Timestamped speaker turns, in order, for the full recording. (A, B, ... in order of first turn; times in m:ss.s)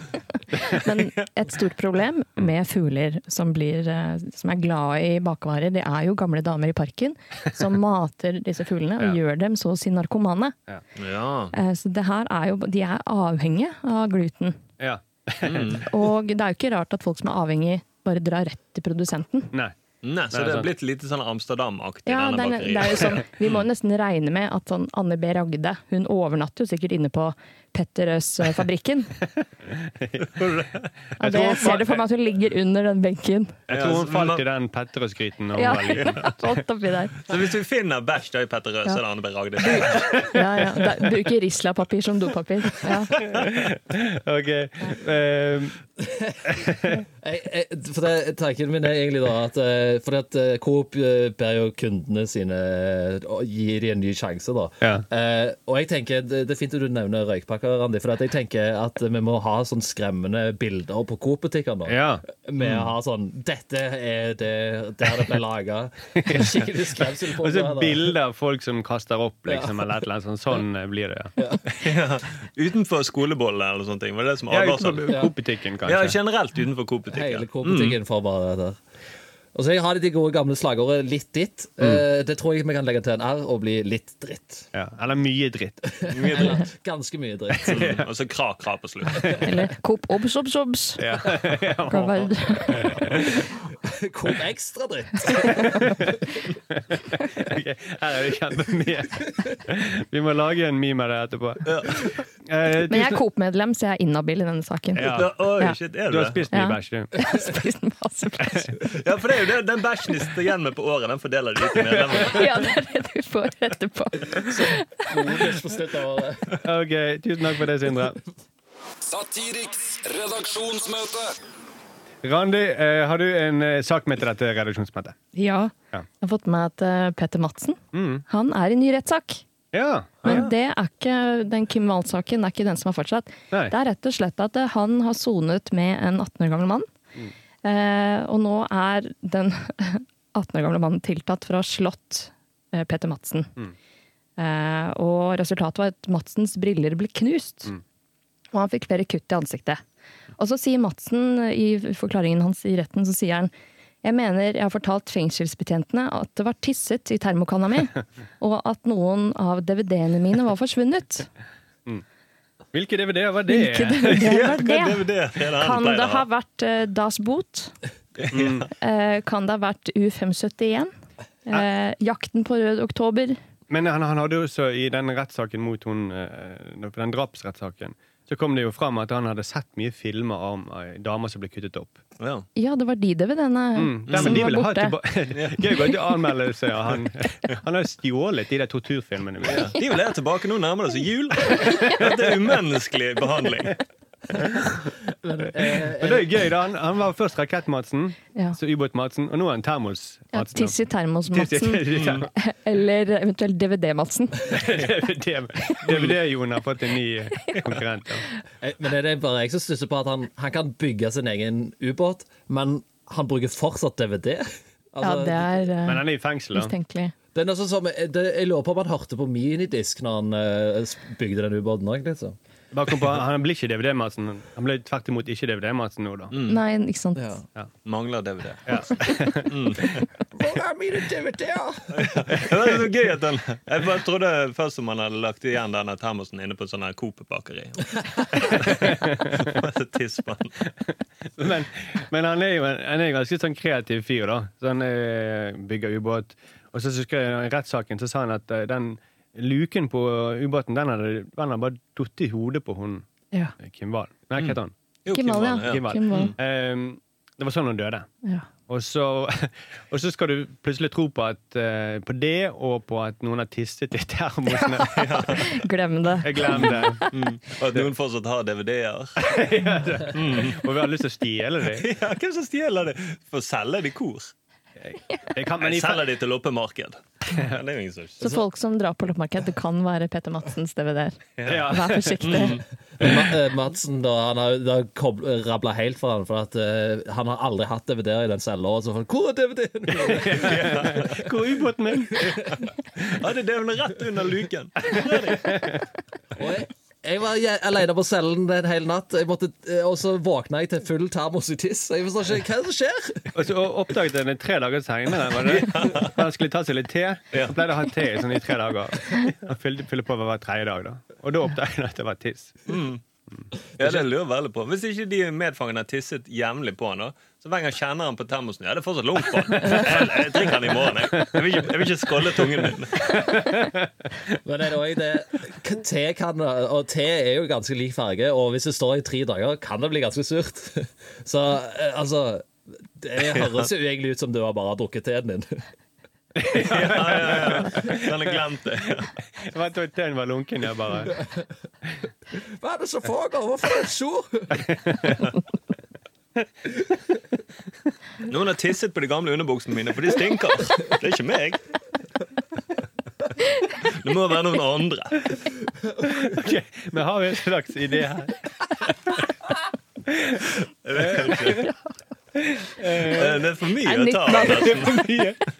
0:00.5-0:10.5 A
0:11.0-0:11.5 B
0:11.5-0:14.6 A
0:14.8-0:15.9 C
0:15.4-0:15.8 B
0:15.9-0:19.5 A
0:20.0-0:23.6 B
0:20.3-0:20.7 C
0:22.0-0:29.1 A
0:30.0-0:30.5 C
0:30.4-0:30.8 B
0:31.2-0:32.0 C
0:31.2-0:33.6 A
0:33.7-0:34.4 B
0:33.7-0:36.4 C
0:35.5-0:37.2 A
0:37.2-0:40.3 B
0:39.6-0:43.1 A
0:39.8-0:40.4 C
0:43.2-0:45.8 C
0:46.0-1:08.1 D
0:46.5-0:47.0 C
1:01.9-1:02.2 C
1:02.6-1:02.9 B
1:06.2-1:06.5 C
1:07.4-1:11.3 C
1:09.5-1:09.7 D
1:11.7-1:15.3 B
1:14.5-1:16.2 C
1:15.1-1:15.3 D
1:15.8-1:18.0 B
1:17.1-1:18.8 D
1:19.5-1:24.7 D
1:24.7-1:25.8 C
1:26.0-1:27.8 D
1:26.1-1:26.6 B
1:27.5-1:28.0 C
1:27.6-1:29.4 B
1:29.1-1:29.5 C
1:29.4-1:31.0 A
1:31.0-1:33.4 C
1:31.9-1:33.0 A
1:33.2-1:36.1 D
1:35.8-1:36.2 C
1:36.9-1:43.2 C
1:41.6-1:41.9 B
1:42.9-1:45.8 A
1:44.9-1:45.3 C
1:45.1-1:46.5 B
1:46.1-1:47.1 C
1:46.5-1:48.7 A
1:48.9-1:52.5 B
1:51.9-1:52.3 C
1:52.2-1:55.1 A
1:54.4-1:56.6 D
1:56.6-1:58.2 C
1:59.0-2:01.3 E
2:02.2-2:05.2 C
2:05.3-2:09.4 A
2:07.9-2:08.2 C
2:09.7-2:10.5 C
2:10.2-2:16.9 A
2:17.6-2:23.5 A
2:24.4-2:27.7 A
2:28.5-2:29.8 A
2:30.4-2:33.5 A
2:34.0-2:41.3 A
2:42.7-2:44.3 C
2:43.5-2:47.7 A
2:44.2-2:46.2 B
2:48.2-2:48.7 B
2:48.3-2:48.7 C
2:48.7-2:50.9 A
2:51.4-2:53.4 A
2:53.7-3:02.0 C
3:02.2-3:02.5 B
3:02.6-3:05.0 A
3:03.8-3:09.8 C
3:04.1-3:04.4 B
3:05.3-3:05.6 B
3:09.4-3:13.8 B
3:11.5-3:12.1 C
3:15.2-3:16.5 D
3:16.0-3:20.8 C
3:20.3-3:24.6 A
3:21.3-3:22.3 C
3:21.9-3:22.3 B
3:24.5-3:28.3 C
3:25.8-3:26.2 B
3:28.6-3:35.7 D
3:35.0-3:37.1 A
3:35.8-3:36.7 C
3:37.3-3:42.4 D
3:42.7-3:46.3 C
3:46.3-3:46.6 B
3:46.4-3:47.3 A
3:47.2-3:47.4 D
3:47.8-3:48.9 B
3:48.6-3:49.5 C
3:49.4-3:50.0 B
3:50.3-3:52.1 D
3:51.9-4:00.6 B
3:58.4-3:59.6 C
4:01.4-4:13.0 C
4:13.6-4:14.7 C
4:14.4-4:16.3 B
4:15.1-4:16.3 A
4:15.6-4:18.1 C
4:18.6-4:25.3 C
4:24.5-4:27.3 A
4:24.9-4:25.5 B
4:26.2-4:27.0 C
4:27.1-4:29.3 B
4:29.2-4:31.9 C
4:30.1-4:30.7 B
4:31.7-4:34.3 B
4:34.8-4:36.0 C
4:35.6-4:38.2 B
4:38.2-4:42.6 A
4:41.4-4:41.7 B
4:41.5-4:42.4 C
4:42.2-4:42.6 B
4:43.0-4:51.1 D
4:49.9-4:52.5 C
4:50.4-4:51.2 B
4:53.0-4:55.8 B
4:55.3-4:55.8 C
4:56.3-5:03.4 D
5:03.3-5:12.7 C
5:05.4-5:06.2 B
5:07.3-5:07.6 B
5:12.7-5:13.0 B
5:13.8-5:23.1 B
5:19.5-5:21.4 C
5:22.6-5:23.9 C
5:24.4-5:35.6 D
5:36.3-5:38.4 C
5:36.5-5:39.1 B
5:39.0-5:41.2 C
5:41.0-5:41.4 D
5:42.3-5:44.7 D
5:44.9-5:45.2 C
5:48.2-5:51.6 B
5:53.7-5:55.4 B
5:56.0-5:58.4 C
6:00.1-6:01.6 C
6:00.8-6:01.7 B
6:02.4-6:03.4 C
6:03.0-6:05.2 B
6:03.8-6:05.2 A
6:04.5-6:05.4 C